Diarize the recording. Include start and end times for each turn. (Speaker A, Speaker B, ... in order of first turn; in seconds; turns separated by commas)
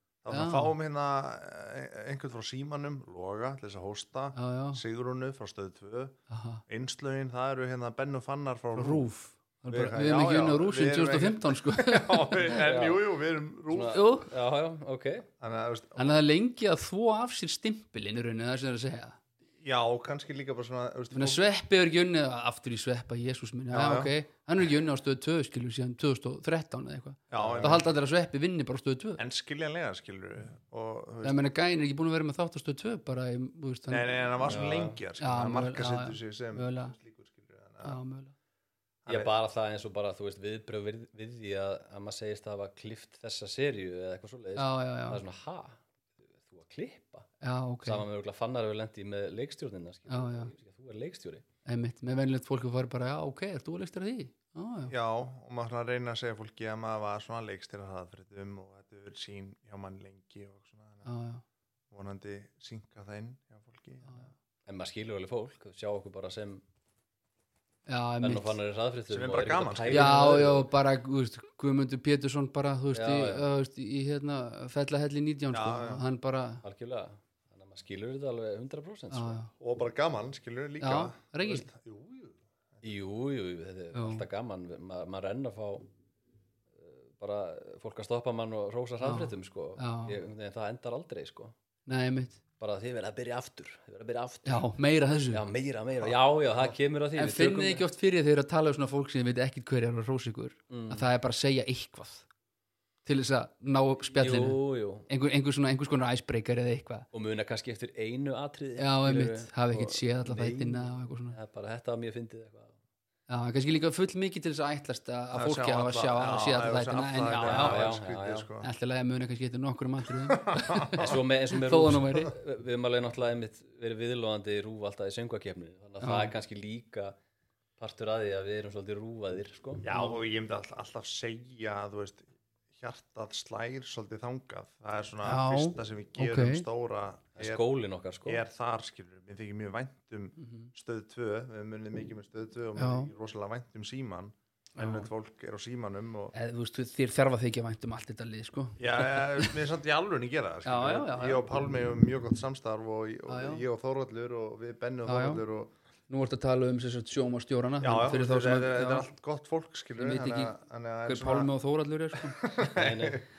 Speaker A: 0.2-6.2, Speaker B: 0.3-0.7, Speaker B: 4.3-4.8, Speaker B: 6.3-6.6, Speaker A: 6.7-9.1, Speaker B: 8.7-12.6, Speaker A: 9.7-14.0, Speaker C: 12.6-13.0, Speaker C: 13.7-15.3, Speaker B: 13.9-14.3, Speaker A: 15.4-16.2, Speaker B: 15.9-19.2, Speaker A: 19.6-21.4, Speaker B: 21.1-29.2, Speaker A: 23.7-24.1, Speaker A: 27.3-27.9, Speaker C: 27.3-27.8, Speaker A: 29.2-31.4, Speaker B: 31.2-34.5, Speaker A: 33.9-38.0, Speaker C: 34.4-35.0, Speaker B: 35.2-36.9, Speaker B: 37.8-38.3, Speaker A: 39.0-39.3, Speaker C: 39.1-45.8, Speaker B: 44.5-45.2, Speaker C: 46.4-47.3, Speaker B: 47.4-48.0, Speaker C: 47.8-51.4, Speaker B: 50.1-50.5, Speaker B: 51.6-54.9, Speaker A: 54.9-61.1, Speaker B: 61.0-61.4, Speaker A: 61.9-64.3, Speaker C: 64.7-66.6, Speaker B: 67.9-68.6, Speaker C: 68.2-70.7, Speaker A: 69.1-70.5, Speaker B: 69.9-76.6, Speaker C: 72.9-73.5, Speaker A: 75.5-76.0, Speaker C: 76.6-79.4, Speaker B: 79.1-79.5, Speaker A: 79.6-82.9, Speaker B: 80.8-81.7, Speaker C: 82.8-85.9, Speaker B: 83.9-84.2, Speaker C: 86.8-91.5, Speaker B: 89.0-90.2, Speaker B: 91.9-92.4, Speaker C: 92.6-94.7, Speaker B: 94.5-95.4, Speaker C: 95.3-97.8, Speaker B: 97.2-102.2, Speaker C: 100.7-101.1, Speaker B: 103.0-107.0, Speaker C: 104.2-105.1, Speaker C: 107.1-112.8, Speaker B: 108.8-111.3, Speaker B: 113.3-117.8, Speaker A: 115.3-118.7, Speaker C: 117.4-118.5, Speaker B: 118.6-122.3, Speaker A: 120.3-121.2, Speaker C: 120.9-127.2, Speaker B: 126.0-126.3, Speaker C: 127.8-129.8, Speaker A: 129.8-137.6, Speaker B: 129.9-130.2, Speaker B: 135.2-136.6, Speaker C: 137.3-138.4, Speaker A: 138.2-146.3, Speaker B: 140.4-140.7, Speaker B: 142.8-143.1, Speaker B: 144.8-145.1, Speaker B: 146.3-149.5, Speaker A: 148.8-155.7, Speaker B: 150.6-151.4, Speaker B: 153.3-153.6, Speaker B: 155.1-155.4, Speaker B: 156.1-159.1, Speaker A: 157.8-161.5, Speaker B: 160.0-160.5, Speaker B: 161.1-162.4, Speaker A: 162.2-163.2, Speaker C: 162.7-163.2